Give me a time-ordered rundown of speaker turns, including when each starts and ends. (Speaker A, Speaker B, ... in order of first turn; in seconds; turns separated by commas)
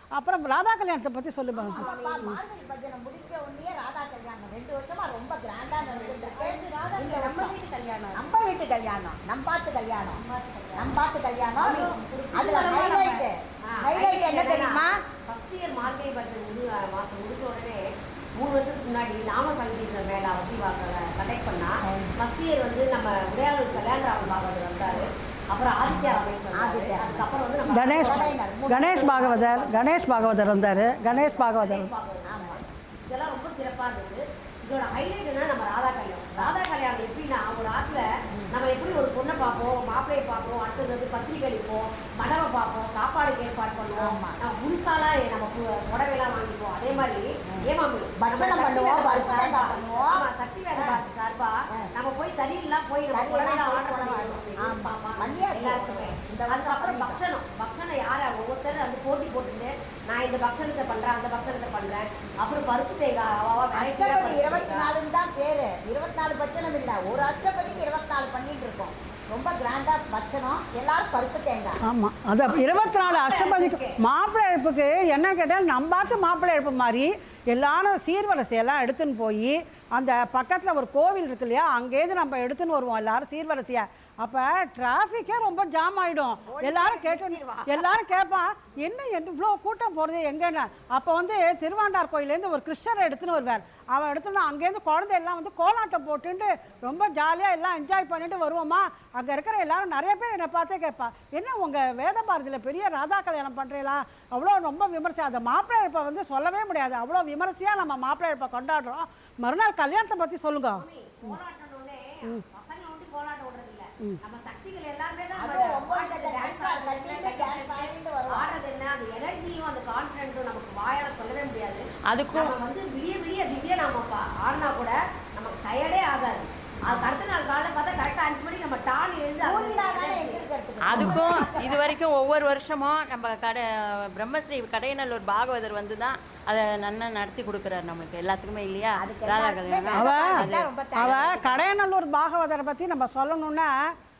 Speaker A: 0.2-2.4, Speaker B: 1.6-2.2, Speaker C: 1.7-7.5, Speaker D: 5.8-8.3, Speaker C: 8.2-10.2, Speaker D: 10.2-11.0, Speaker C: 10.8-14.9, Speaker D: 11.6-13.2, Speaker B: 11.6-11.9, Speaker B: 13.7-64.9, Speaker C: 26.6-27.2, Speaker A: 27.7-31.9, Speaker C: 28.0-29.2, Speaker C: 32.3-32.6, Speaker C: 44.0-44.4, Speaker C: 48.2-50.2, Speaker C: 53.1-57.2, Speaker C: 63.8-71.8, Speaker A: 71.9-111.4, Speaker B: 72.5-74.0, Speaker C: 86.5-87.8, Speaker B: 110.7-130.4, Speaker C: 115.4-118.6, Speaker E: 122.1-122.5, Speaker C: 129.4-131.9, Speaker E: 130.9-141.2, Speaker C: 139.0-141.7, Speaker A: 139.9-140.4, Speaker A: 141.0-143.9